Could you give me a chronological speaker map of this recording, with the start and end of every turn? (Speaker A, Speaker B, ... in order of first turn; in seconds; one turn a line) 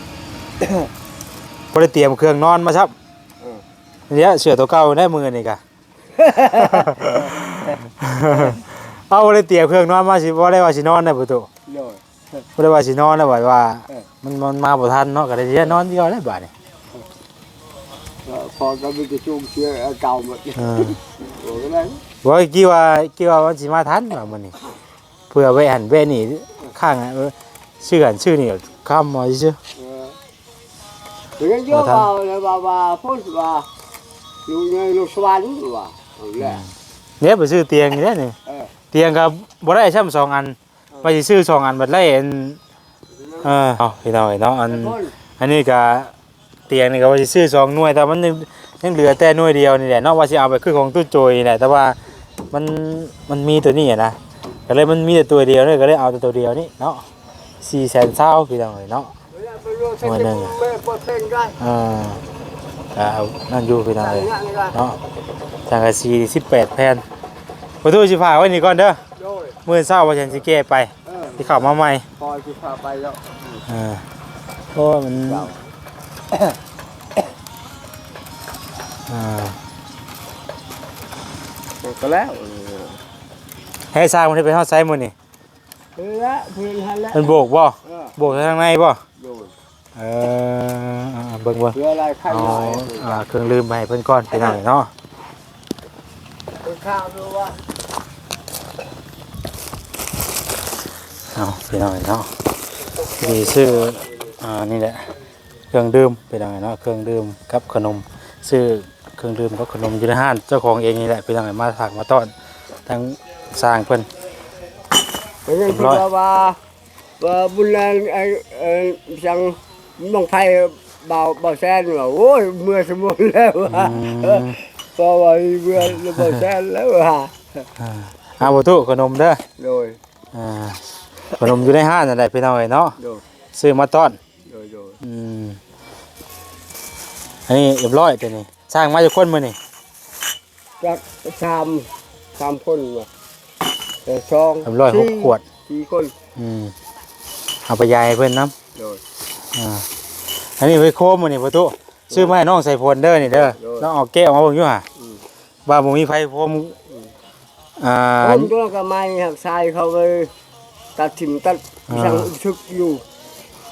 Speaker A: 1.7-2.9
Speaker A: 4.1-5.6
Speaker B: 6.2-7.8
Speaker A: 6.3-11.5
Speaker B: 8.3-8.6
Speaker B: 11.7-12.0
Speaker A: 12.6-16.5
Speaker B: 18.2-22.0
Speaker A: 20.6-21.0
Speaker A: 22.2-24.6
Speaker A: 25.3-29.6
Speaker B: 29.8-30.2
Speaker B: 31.4-33.7
Speaker A: 31.7-32.1
Speaker B: 34.5-36.6
Speaker A: 36.4-38.4
Speaker B: 38.5-38.7
Speaker A: 38.9-42.6
Speaker B: 43.1-43.5
Speaker A: 43.4-46.1
Speaker B: 44.7-45.1
Speaker A: 46.7-52.0
Speaker A: 52.5-54.2
Speaker A: 54.7-57.0
Speaker A: 57.6-59.1
Speaker B: 59.3-61.6
Speaker A: 60.0-60.6
Speaker A: 61.6-62.2
Speaker A: 62.9-65.0
Speaker B: 64.0-64.8
Speaker A: 65.7-67.0
Speaker A: 67.8-69.0
Speaker B: 69.2-69.6
Speaker A: 69.7-72.0
Speaker B: 71.0-71.6
Speaker B: 72.2-73.6
Speaker A: 73.7-74.0
Speaker A: 74.8-75.5
Speaker B: 75.2-75.7
Speaker B: 76.3-76.6
Speaker A: 79.1-79.6
Speaker B: 81.8-83.0
Speaker A: 83.9-85.1
Speaker B: 86.0-88.3
Speaker A: 87.1-89.0
Speaker B: 89.2-89.5
Speaker A: 90.0-91.8
Speaker B: 91.7-93.2
Speaker A: 92.3-94.9
Speaker B: 96.6-97.6
Speaker A: 101.3-102.3
Speaker B: 103.0-104.1
Speaker A: 103.2-105.1
Speaker A: 105.7-112.3
Speaker A: 112.9-114.1
Speaker B: 115.5-116.6
Speaker A: 115.7-116.0
Speaker B: 117.2-127.7
Speaker A: 123.7-124.6
Speaker A: 125.8-126.4
Speaker A: 127.8-129.4
Speaker B: 129.6-130.0
Speaker A: 130.3-133.0
Speaker A: 133.5-134.2
Speaker B: 134.4-135.0
Speaker A: 135.0-135.6
Speaker A: 137.5-139.6
Speaker B: 140.8-143.1
Speaker B: 144.1-146.1
Speaker A: 144.7-145.4
Speaker A: 146.4-146.7
Speaker A: 147.7-148.5
Speaker B: 148.8-149.0
Speaker A: 149.5-149.9
Speaker A: 150.6-154.8
Speaker B: 152.1-152.4
Speaker B: 153.3-153.9
Speaker B: 155.0-155.2
Speaker A: 155.7-156.8
Speaker A: 157.8-158.5
Speaker B: 158.2-160.3
Speaker B: 161.0-163.1
Speaker A: 161.9-162.3